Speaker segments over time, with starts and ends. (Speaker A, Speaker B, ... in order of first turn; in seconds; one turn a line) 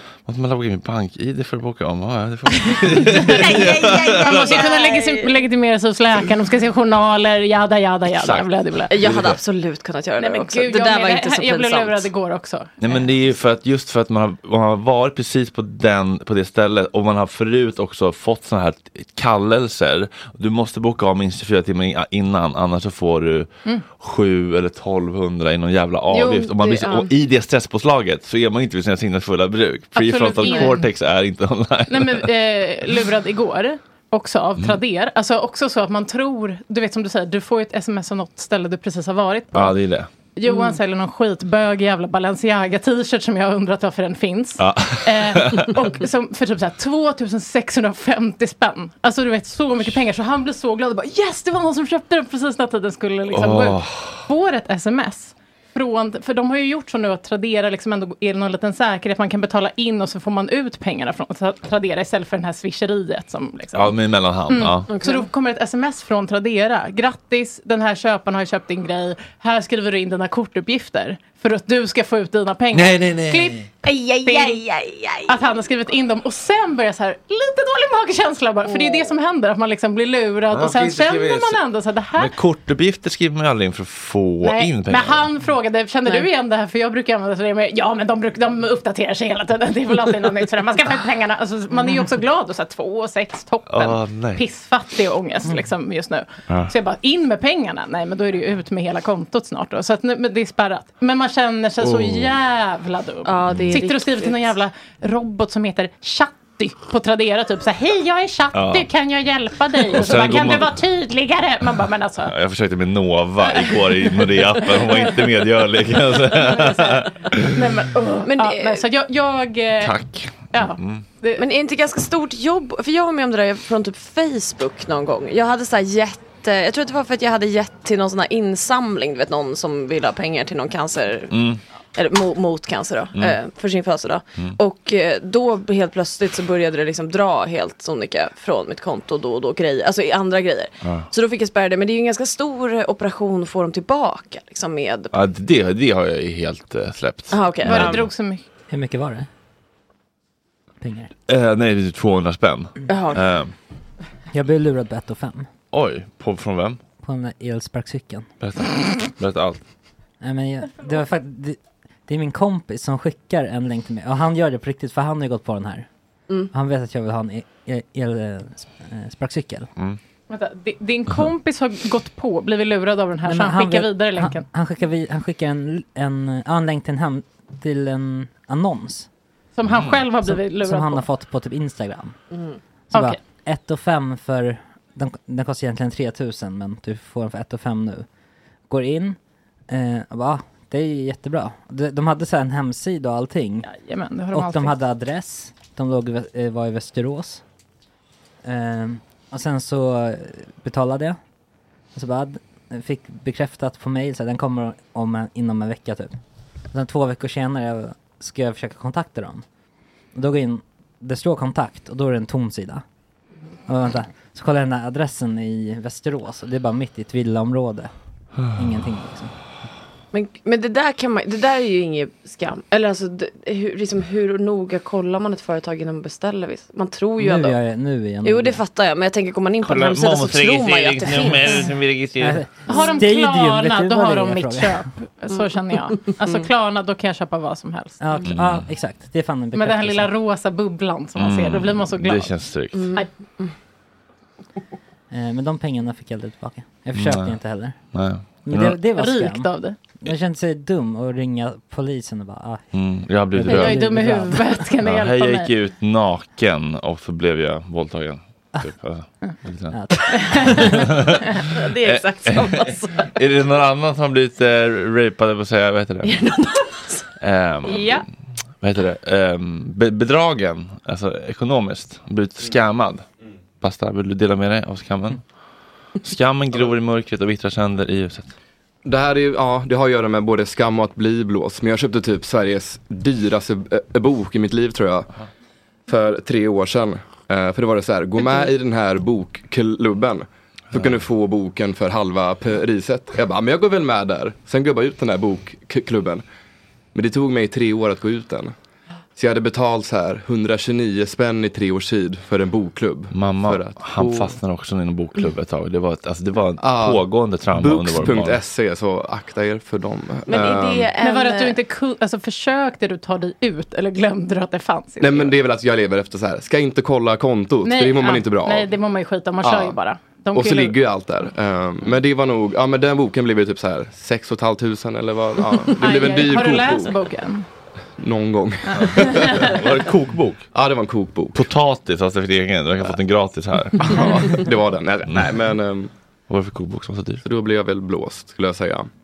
Speaker A: 0.2-4.6
Speaker B: 2.7-8.9
Speaker C: 3.3-5.4
Speaker A: 8.2-8.5
Speaker C: 8.9-12.1
Speaker A: 9.0-9.4
Speaker B: 10.2-12.8
Speaker A: 12.8-32.3
Speaker C: 26.1-27.1
Speaker B: 29.9-30.8
Speaker C: 30.4-30.7
Speaker B: 31.9-39.8
Speaker A: 39.5-40.1
Speaker B: 40.4-63.9
Speaker C: 40.5-40.8
Speaker A: 44.6-45.8
Speaker A: 53.3-54.2
Speaker A: 63.7-64.9
Speaker B: 64.5-74.6
Speaker C: 64.9-65.3
Speaker A: 72.7-73.7
Speaker C: 73.8-75.4
Speaker B: 75.3-82.3
Speaker C: 78.6-79.1
Speaker A: 80.5-81.6
Speaker A: 82.2-85.3
Speaker B: 84.4-112.3
Speaker A: 93.7-94.4
Speaker A: 96.5-96.7
Speaker C: 103.2-104.5
Speaker A: 103.5-103.8
Speaker A: 108.5-108.9
Speaker A: 109.9-110.8
Speaker A: 112.3-117.5
Speaker C: 116.4-117.0
Speaker B: 117.5-120.0
Speaker C: 118.2-118.8
Speaker A: 119.8-121.0
Speaker B: 120.5-121.4
Speaker C: 121.4-145.2
Speaker A: 131.3-131.6
Speaker A: 140.8-141.1
Speaker A: 145.1-148.1
Speaker C: 147.3-148.0
Speaker B: 147.7-148.4
Speaker D: 148.7-149.3
Speaker D: 150.8-151.1
Speaker A: 151.3-153.5
Speaker C: 152.9-153.2
Speaker D: 154.3-155.5
Speaker A: 155.7-156.8
Speaker D: 157.0-158.3
Speaker A: 158.4-159.7
Speaker D: 160.2-165.9
Speaker D: 166.5-169.7
Speaker B: 170.3-174.5
Speaker D: 173.2-179.1
Speaker B: 179.6-181.1
Speaker A: 179.7-180.0
Speaker D: 180.2-182.2
Speaker D: 182.9-188.1
Speaker B: 182.9-183.2
Speaker D: 188.7-193.7
Speaker B: 193.6-194.8
Speaker D: 194.3-197.4
Speaker D: 198.4-201.2
Speaker D: 201.9-209.5
Speaker D: 210.1-212.8
Speaker D: 213.7-219.4
Speaker C: 220.1-227.6
Speaker D: 227.2-228.6
Speaker C: 228.2-231.7
Speaker A: 229.6-232.4
Speaker D: 232.2-234.9
Speaker C: 232.7-233.0
Speaker B: 232.7-238.0
Speaker C: 235.3-236.4
Speaker D: 238.0-240.1
Speaker A: 238.3-238.7
Speaker B: 239.6-243.1
Speaker A: 241.2-242.9
Speaker C: 242.7-243.6
Speaker D: 245.1-254.6
Speaker A: 246.9-248.8
Speaker B: 249.0-249.8
Speaker A: 252.7-254.1
Speaker B: 253.4-255.5
Speaker A: 254.8-259.9
Speaker D: 259.7-260.7
Speaker B: 260.1-260.6
Speaker A: 260.5-260.9
Speaker C: 261.5-263.2
Speaker A: 261.8-266.2
Speaker C: 266.0-267.1
Speaker A: 267.2-268.1
Speaker C: 267.6-268.0
Speaker A: 268.6-273.1
Speaker A: 273.6-275.3
Speaker A: 275.8-278.4
Speaker E: 278.9-285.1
Speaker E: 285.9-296.2
Speaker C: 288.2-288.5
Speaker E: 296.9-298.6
Speaker E: 299.1-304.4
Speaker A: 303.1-308.4
Speaker E: 306.6-310.9
Speaker C: 310.3-311.6
Speaker B: 311.0-315.3
Speaker E: 315.0-318.7
Speaker B: 317.6-320.8
Speaker E: 319.4-319.8
Speaker E: 320.3-326.9
Speaker B: 325.8-327.5
Speaker E: 328.0-329.9
Speaker B: 329.0-329.3
Speaker A: 329.4-330.5
Speaker E: 330.5-331.4
Speaker A: 331.3-334.4
Speaker E: 334.2-335.9
Speaker A: 335.1-335.4
Speaker A: 336.3-337.2
Speaker E: 337.2-338.9